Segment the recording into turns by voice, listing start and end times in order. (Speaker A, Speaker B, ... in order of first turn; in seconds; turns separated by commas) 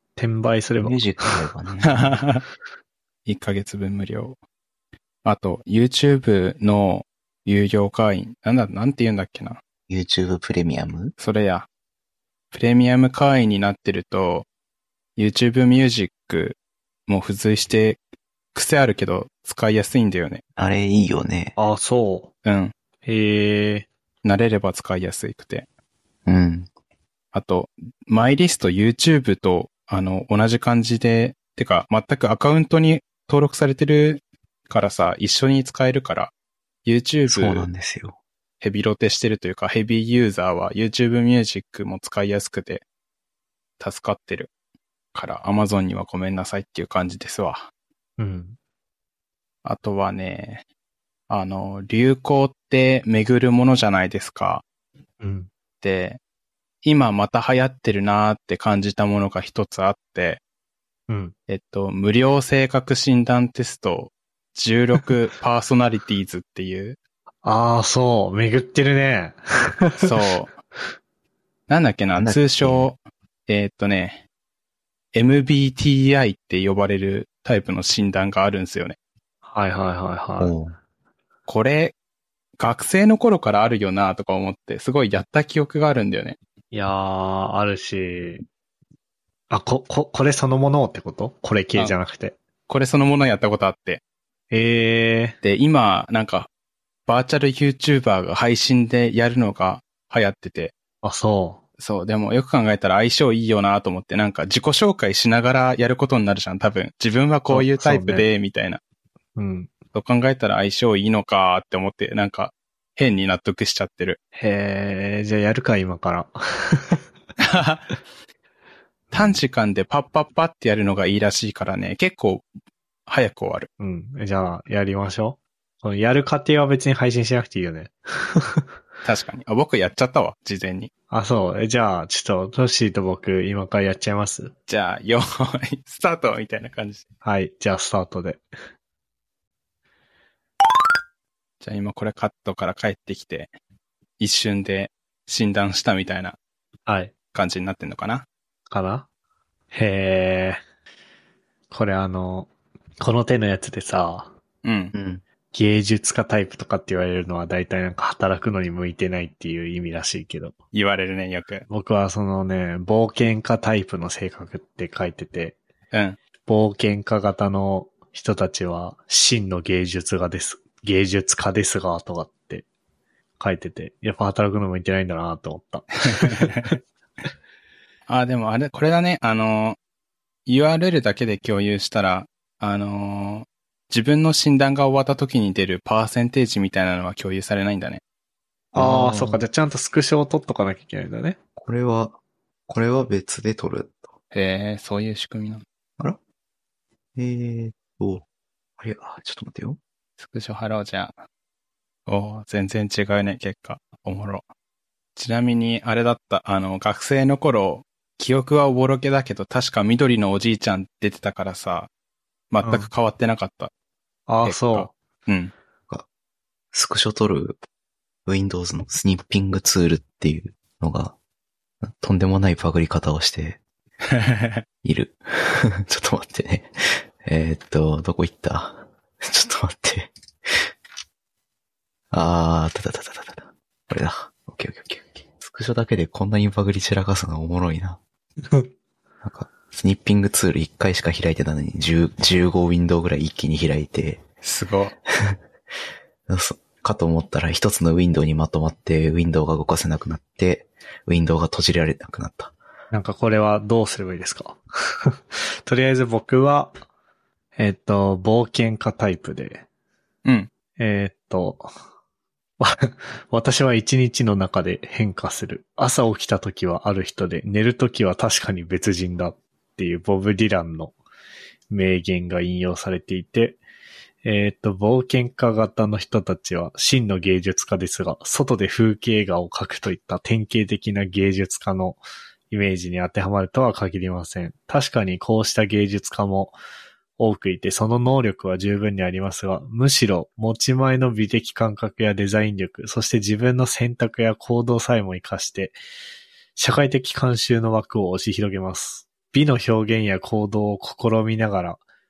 Speaker A: 0.2-1.2, Speaker B: 0.8-2.0, Speaker C: 1.8-2.4, Speaker C: 3.3-4.4, Speaker C: 5.2-9.6, Speaker B: 9.9-11.1, Speaker C: 11.2-11.7, Speaker C: 12.5-14.5, Speaker C: 15.2-16.6, Speaker C: 17.1-18.0, Speaker C: 18.5-20.4, Speaker B: 20.6-21.6, Speaker A: 21.6-22.3, Speaker C: 22.4-22.7, Speaker A: 23.0-23.9, Speaker C: 24.2-25.7, Speaker B: 26.3-26.7, Speaker C: 27.3-36.3, Speaker C: 36.9-37.7, Speaker B: 37.3-38.2, Speaker C: 38.6-42.9, Speaker C: 43.8-44.5, Speaker C: 45.1-47.7, Speaker A: 48.2-48.6, Speaker C: 49.6-50.6, Speaker C: 51.3-54.6, Speaker A: 55.2-55.5, Speaker C: 55.8-56.2, Speaker C: 56.8-60.4, Speaker A: 61.1-61.3, Speaker C: 61.5-67.0, Speaker A: 67.4-70.1, Speaker C: 70.0-70.6, Speaker C: 71.7-74.2, Speaker B: 72.2-72.9, Speaker C: 75.1-79.0, Speaker A: 79.5-80.5, Speaker B: 80.4-80.8, Speaker C: 81.5-81.9, Speaker C: 82.6-86.4, Speaker A: 86.7-88.5, Speaker A: 89.5-92.4, Speaker C: 92.7-94.0, Speaker A: 94.5-95.4, Speaker C: 95.4-96.5, Speaker C: 97.1-100.7, Speaker A: 101.0-101.6, Speaker C: 101.8-108.8, Speaker A: 107.5-108.3, Speaker A: 109.4-109.7, Speaker C: 109.9-114.2, Speaker A: 114.4-117.0, Speaker C: 117.4-117.9, Speaker C: 119.1-122.5, Speaker C: 123.1-123.7, Speaker A: 123.8-128.6, Speaker C: 129.1-130.9, Speaker A: 131.1-134.5, Speaker C: 134.7-137.0, Speaker A: 137.2-138.4, Speaker C: 141.6-143.5, Speaker C: 144.2-146.4, Speaker A: 146.9-147.1, Speaker C: 147.3-148.3, Speaker A: 148.7-149.1, Speaker A: 149.7-150.6, Speaker A: 151.7-152.5, Speaker A: 153.0-154.3, Speaker C: 154.6-154.9, Speaker B: 154.9-155.2, Speaker A: 155.5-160.5, Speaker C: 160.7-161.7, Speaker A: 161.7-165.6, Speaker C: 165.9-166.2, Speaker A: 166.5-172.7, Speaker A: 173.4-176.8, Speaker C: 176.1-176.7, Speaker C: 178.1-179.8, Speaker C: 180.5-188.0, Speaker A: 188.7-191.4, Speaker B: 188.8-189.4, Speaker B: 191.6-192.2, Speaker B: 192.7-194.1, Speaker C: 194.3-195.6, Speaker B: 197.2-198.2, Speaker B: 198.8-199.8, Speaker C: 200.2-201.2, Speaker C: 202.1-204.4, Speaker C: 205.2-211.9, Speaker C: 212.5-213.7, Speaker A: 212.6-212.9, Speaker A: 214.3-214.9, Speaker C: 214.4-215.5, Speaker B: 216.7-217.6, Speaker B: 218.3-221.2, Speaker B: 221.8-223.6, Speaker C: 224.1-224.6, Speaker B: 224.8-230.7, Speaker B: 232.1-238.0, Speaker B: 239.2-244.2, Speaker C: 244.4-244.9, Speaker B: 246.3-252.5, Speaker A: 252.9-256.8, Speaker A: 257.6-259.6, Speaker A: 260.8-261.7, Speaker A: 262.6-270.9, Speaker A: 271.7-273.6, Speaker A: 274.2-286.6, Speaker A: 287.2-295.8, Speaker A: 296.6-301.8